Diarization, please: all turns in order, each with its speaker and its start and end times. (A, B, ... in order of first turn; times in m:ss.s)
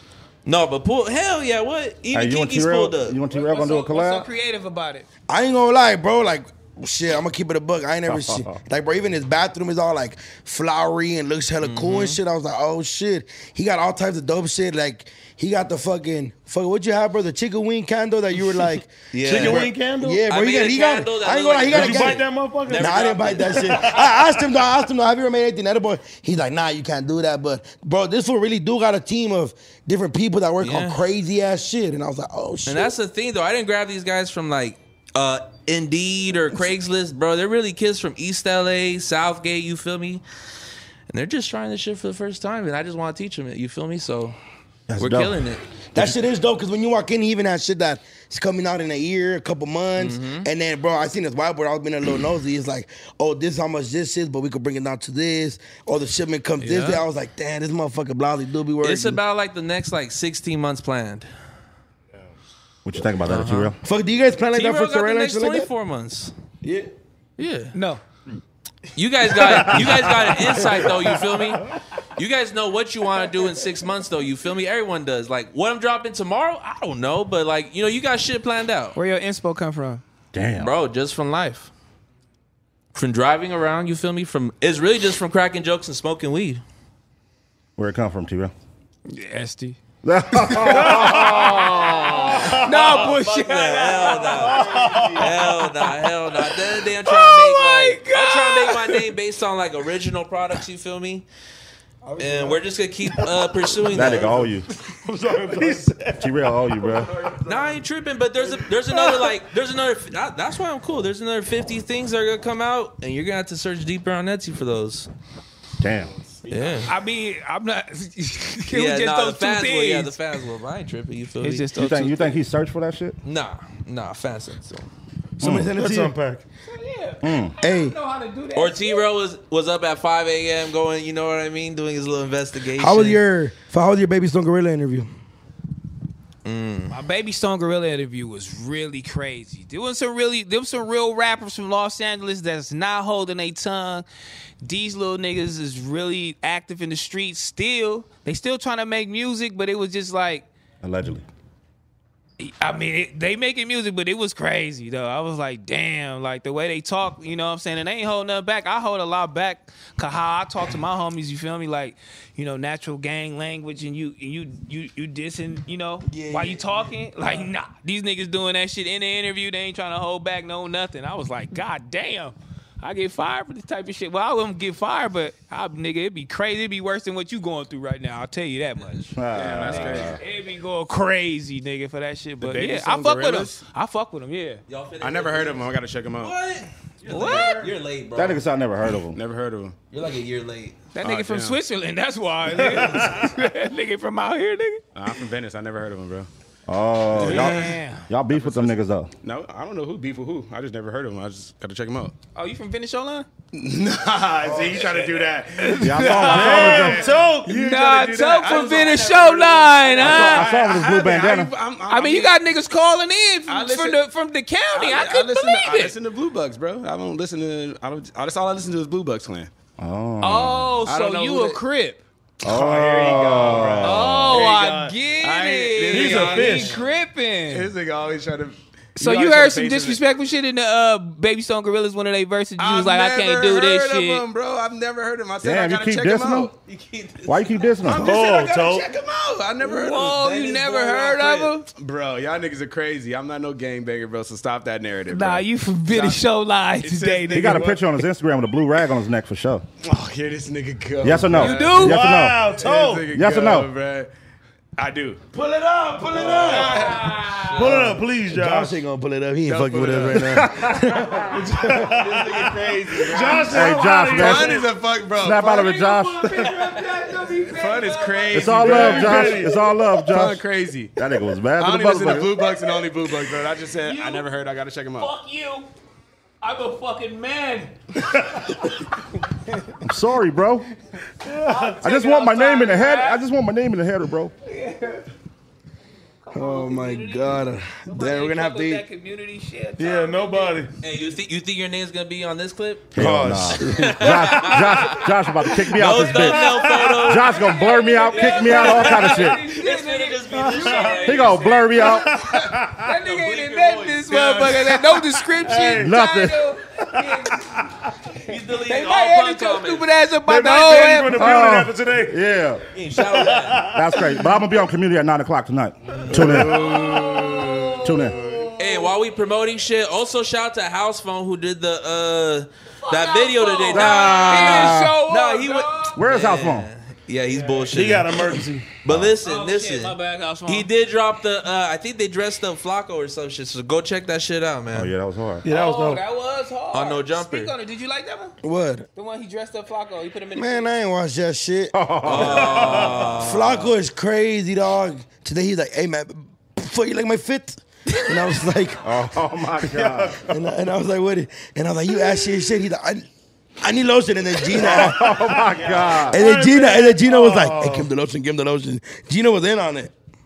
0:00.4-0:03.2 A
0:02.1-0:04.3 B
0:03.3-0:05.1 C
0:05.3-0:32.9 D
0:08.1-0:08.6 B
0:11.6-0:12.2 A
0:19.1-0:24.0 A
0:19.2-0:20.2 E
0:21.7-0:24.2 E
0:30.6-0:31.0 A
0:32.7-0:40.2 A
0:41.1-0:44.4 A
0:44.9-0:45.4 B
0:45.0-0:45.6 A
0:45.9-0:59.2 D
0:50.0-0:50.5 A
0:56.6-0:57.0 A
0:58.8-1:01.3 A
1:02.8-1:03.8 B
1:03.2-1:03.7 A
1:03.8-1:05.7 D
1:04.5-1:06.3 A
1:06.6-1:06.9 D
1:07.4-1:07.7 A
1:07.7-1:08.0 C
1:09.0-1:19.0 A
1:19.0-1:20.0 C
1:20.3-1:20.7 B
1:20.6-1:21.7 A
1:22.9-1:26.6 A
1:27.8-1:28.5 B
1:29.1-1:29.8 C
1:30.0-1:32.1 B
1:30.3-1:35.6 C
1:32.2-1:34.6 A
1:34.5-1:35.2 E
1:35.2-1:41.3 A
1:37.0-1:39.1 C
1:42.0-1:42.6 D
1:42.2-1:44.5 A
1:43.9-1:44.7 B
1:45.1-1:46.7 E
1:45.3-1:45.8 D
1:46.2-1:47.1 B
1:47.4-1:55.1 A
1:48.9-1:49.3 E
1:55.8-1:56.1 B
1:55.8-1:57.0 F
1:56.5-1:56.9 A
1:56.9-2:00.2 C
1:58.7-2:01.8 A
2:01.4-2:02.4 C
2:01.8-2:03.2 B
2:03.2-2:04.9 A
2:05.4-2:06.2 D
2:05.4-2:05.7 B
2:05.7-2:06.4 E
2:06.6-2:09.0 C
2:07.2-2:07.6 B
2:07.6-2:08.0 D
2:08.6-2:13.2 A
2:12.8-2:15.1 D
2:16.4-2:17.0 A
2:16.9-2:24.1 C
2:24.6-2:30.5 C
2:30.8-2:31.2 B
2:32.4-3:04.6 C
2:46.1-2:46.9 D
2:59.2-3:00.2 B
2:59.3-3:00.2 F
3:02.4-3:03.6 F
3:04.7-3:08.4 A
3:05.0-3:06.4 F
3:07.1-3:07.7 C
3:08.2-3:09.2 B
3:09.1-3:09.8 F
3:09.9-3:10.8 A
3:10.9-3:14.8 C
3:11.0-3:11.6 F
3:12.6-3:13.1 A
3:15.0-3:16.3 F
3:16.7-3:19.1 B
3:17.1-3:17.7 F
3:17.2-3:18.1 C
3:18.3-3:22.2 F
3:22.4-3:23.3 C
3:23.5-3:32.4 F
3:25.6-3:30.6 C
3:25.8-3:27.1 B
3:26.2-3:27.6 E
3:30.0-3:31.5 B
3:31.9-3:36.0 C
3:33.5-3:34.0 F
3:34.7-3:39.5 F
3:39.8-3:40.8 B
3:40.2-3:42.0 C
3:40.9-3:41.6 F
3:42.4-3:46.9 F
3:42.4-3:44.4 B
3:43.8-3:47.7 C
3:45.9-3:46.8 E
3:47.5-3:50.0 F
3:49.0-3:54.2 C
3:52.6-3:56.5 F
3:55.4-3:56.5 B
3:56.6-3:57.7 A
3:57.2-3:58.2 B
3:57.8-4:06.2 F
3:58.0-3:58.9 E
3:59.6-4:01.7 C
4:00.1-4:01.5 A
4:05.1-4:07.7 C
4:06.8-4:07.9 F
4:07.3-4:09.6 B
4:09.8-4:14.1 F
4:11.0-4:13.7 B
4:11.4-4:12.1 C
4:11.7-4:13.1 E
4:14.8-4:15.3 F
4:15.3-4:16.9 D
4:16.1-4:17.3 F
4:16.4-4:17.7 C
4:17.5-4:18.0 A
4:17.6-4:18.8 E
4:17.6-4:21.4 D
4:19.4-4:20.5 F
4:20.1-4:21.3 B
4:21.3-4:25.7 F
4:21.3-4:24.7 E
4:23.4-4:26.5 B
4:25.3-4:29.4 C
4:27.5-4:31.0 F
4:28.3-4:30.4 B
4:28.6-4:29.6 E
4:31.0-4:32.4 B
4:31.6-4:35.1 F
4:32.4-4:32.9 C
4:33.8-4:34.3 C
4:35.0-4:35.7 C
4:36.4-4:37.8 C
4:39.8-4:40.7 B
4:41.2-4:41.8 E
4:41.3-4:43.2 C
4:41.8-4:44.3 B
4:44.5-4:45.1 C
4:46.2-4:50.6 C
4:46.3-4:48.8 D
4:49.8-4:50.7 E
4:50.8-4:53.0 A
4:52.9-4:59.4 B
4:53.0-4:54.2 D
4:53.6-4:57.6 A
4:56.3-4:57.0 E
4:57.2-5:01.3 C
4:58.1-5:02.0 A
5:00.5-5:01.0 E
5:01.0-5:02.1 B
5:01.8-5:02.9 E
5:02.2-5:07.6 C
5:03.0-5:04.7 A
5:05.4-5:06.0 E
5:05.8-5:06.4 B
5:08.2-5:09.9 A
5:08.2-5:11.4 C
5:10.2-5:12.2 E
5:11.1-5:12.6 B
5:12.8-5:13.8 A
5:13.0-5:14.3 E
5:13.6-5:16.6 B
5:16.1-5:17.5 D
5:16.2-5:16.7 E
5:16.3-5:16.7 F
5:16.5-5:18.8 C
5:17.8-5:18.2 B
5:18.1-5:18.5 F
5:18.6-5:34.9 A
5:22.8-5:26.0 C
5:23.7-5:25.0 B
5:26.0-5:26.7 B
5:27.3-5:27.8 C
5:27.7-5:28.7 E
5:28.8-5:29.1 B
5:29.2-5:30.7 C
5:34.7-5:35.5 B
5:35.4-5:36.0 E
5:35.4-5:38.4 C
5:36.7-5:37.5 A
5:38.4-5:38.9 D
5:39.0-5:40.7 C
5:40.4-5:41.8 D
5:41.7-5:43.1 B
5:42.0-5:43.7 A
5:43.0-5:49.0 D
5:48.8-5:50.3 B
5:49.6-5:53.1 D
5:53.6-5:55.3 D
5:54.5-5:56.2 B
5:55.5-5:56.1 F
5:56.1-5:57.9 E
5:56.1-5:59.9 D